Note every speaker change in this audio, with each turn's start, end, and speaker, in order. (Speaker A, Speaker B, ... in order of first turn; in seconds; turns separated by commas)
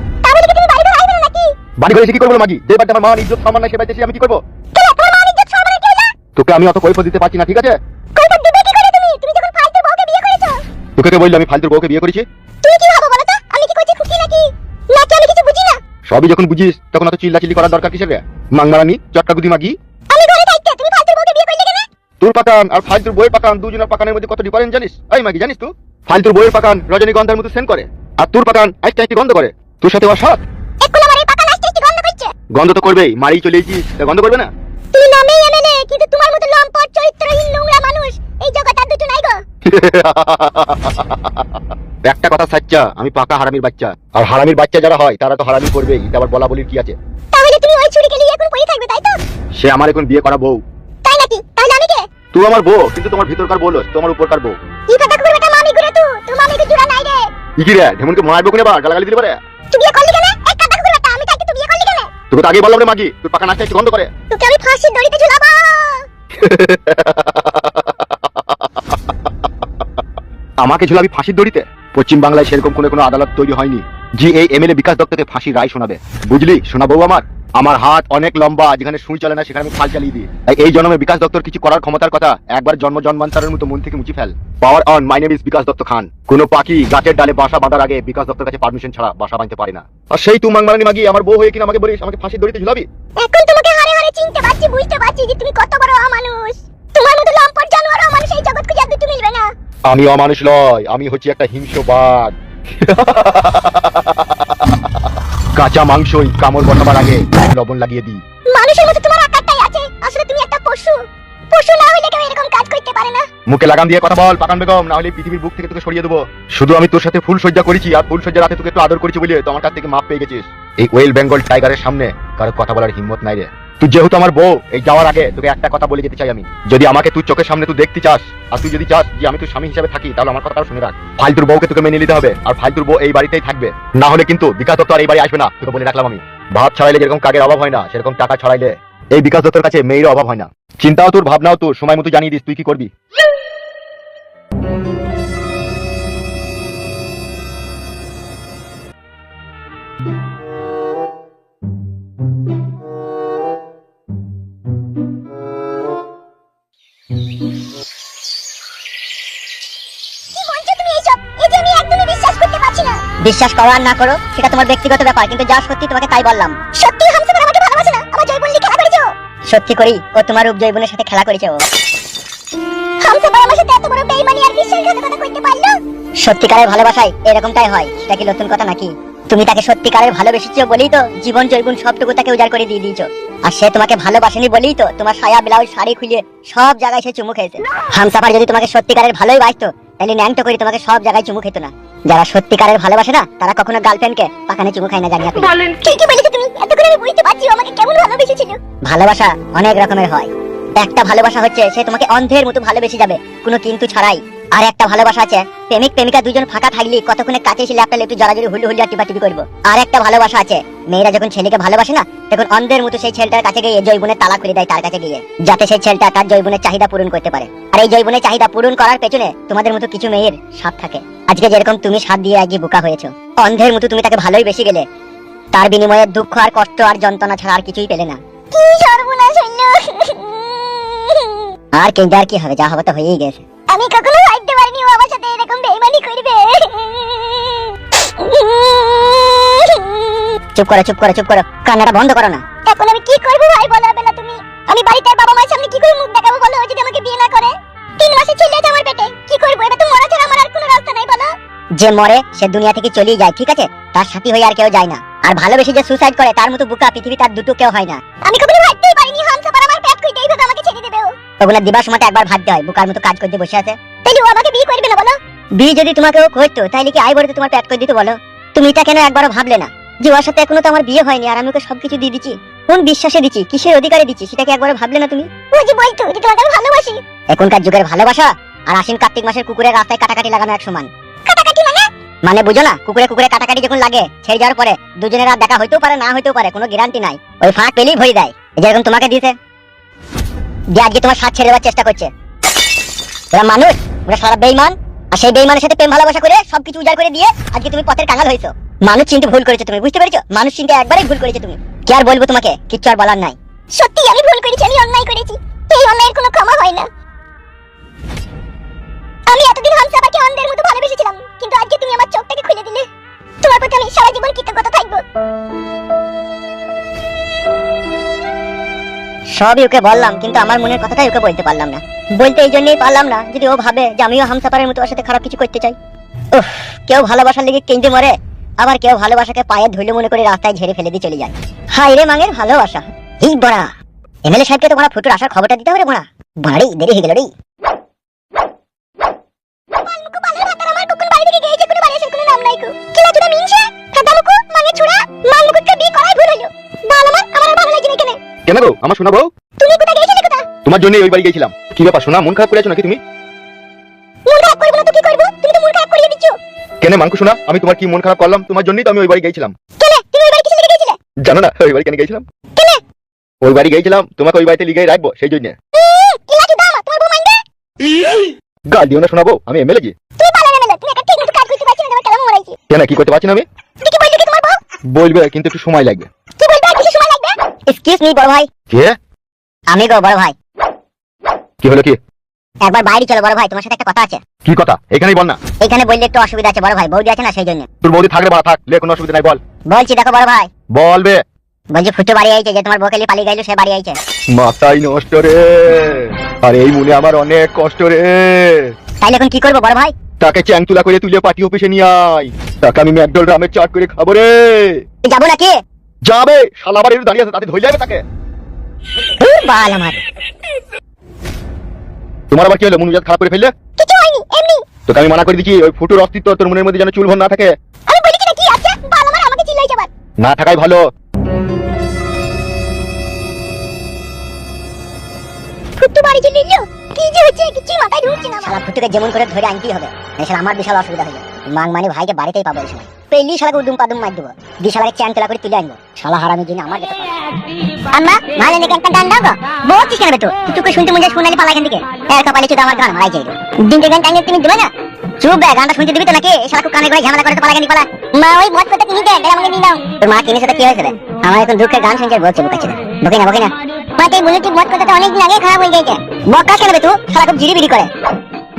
Speaker A: 0.2-1.5, Speaker B: 1.8-4.4, Speaker A: 4.8-6.1, Speaker B: 6.3-7.8, Speaker A: 8.2-10.6, Speaker B: 11.0-12.2, Speaker A: 12.6-15.8, Speaker B: 16.1-19.8, Speaker A: 20.1-21.9, Speaker B: 22.2-30.4, Speaker A: 30.8-32.3, Speaker B: 32.5-34.5, Speaker A: 34.9-39.4, Speaker B: 39.7-41.2, Speaker B: 42.0-47.0, Speaker A: 47.3-49.2, Speaker B: 49.6-50.6, Speaker A: 51.0-52.1, Speaker B: 52.3-54.6, Speaker A: 54.9-57.3, Speaker B: 57.6-59.4, Speaker A: 59.7-62.1, Speaker B: 62.3-64.1, Speaker A: 64.3-66.0, Speaker B: 66.4-67.9, Speaker B: 70.6-92.9, Speaker A: 93.2-99.5, Speaker B: 99.9-104.1, Speaker B: 105.6-108.2, Speaker A: 108.5-113.3, Speaker B: 113.5-142.9, Speaker A: 160.3-163.0, Speaker C: 163.2-166.6, Speaker A: 166.7-169.1, Speaker C: 169.5-171.7, Speaker A: 173.0-175.8, Speaker C: 176.2-195.6, Speaker A: 195.5-198.6, Speaker C: 198.8-224.9, Speaker C: 225.5-228.2, Speaker A: 228.5-231.5, Speaker C: 231.7-233.4, Speaker A: 233.7-240.4, Speaker C: 240.5-242.5, Speaker A: 242.6-251.3, Speaker C: 251.8-258.0, Speaker A: 258.2-261.1, Speaker C: 261.4-263.8, Speaker A: 264.1-265.2, Speaker C: 265.6-275.4, Speaker A: 275.5-277.0, Speaker C: 277.3-280.9, Speaker A: 281.3-281.9, Speaker C: 282.2-289.3, Speaker C: 290.7-292.1, Speaker C: 293.3-303.4, Speaker A: 303.7-306.9, Speaker A: 309.3-312.9, Speaker A: 313.4-315.0, Speaker C: 319.3-325.8, Speaker C: 326.3-333.7, Speaker C: 334.2-337.3, Speaker A: 339.8-348.2, Speaker B: 348.5-349.3, Speaker A: 349.6-350.5, Speaker B: 350.6-353.0, Speaker A: 354.3-356.4, Speaker B: 356.8-359.5, Speaker A: 359.8-361.0, Speaker B: 361.2-362.2, Speaker A: 362.6-362.8, Speaker B: 363.4-365.6, Speaker A: 365.8-367.4, Speaker B: 368.7-369.9, Speaker A: 370.2-372.6, Speaker B: 372.7-373.4, Speaker A: 373.8-374.6, Speaker B: 374.9-376.1, Speaker A: 376.4-377.4, Speaker C: 377.7-378.5, Speaker B: 378.7-378.9, Speaker C: 379.7-380.4, Speaker B: 381.6-382.0, Speaker C: 382.6-384.2, Speaker B: 384.4-385.4, Speaker C: 385.6-387.7, Speaker B: 387.8-389.4, Speaker C: 389.7-390.5, Speaker B: 390.7-391.2, Speaker C: 391.7-394.0, Speaker B: 394.4-398.7, Speaker C: 399.0-399.9, Speaker B: 400.2-404.8, Speaker C: 405.0-405.5, Speaker B: 406.1-408.0, Speaker C: 409.2-410.0, Speaker B: 412.3-413.5, Speaker A: 413.8-414.6, Speaker B: 414.9-417.5, Speaker A: 417.9-419.9, Speaker B: 420.2-420.8, Speaker A: 425.8-428.6, Speaker C: 428.4-437.3, Speaker A: 437.6-438.0, Speaker C: 437.9-457.9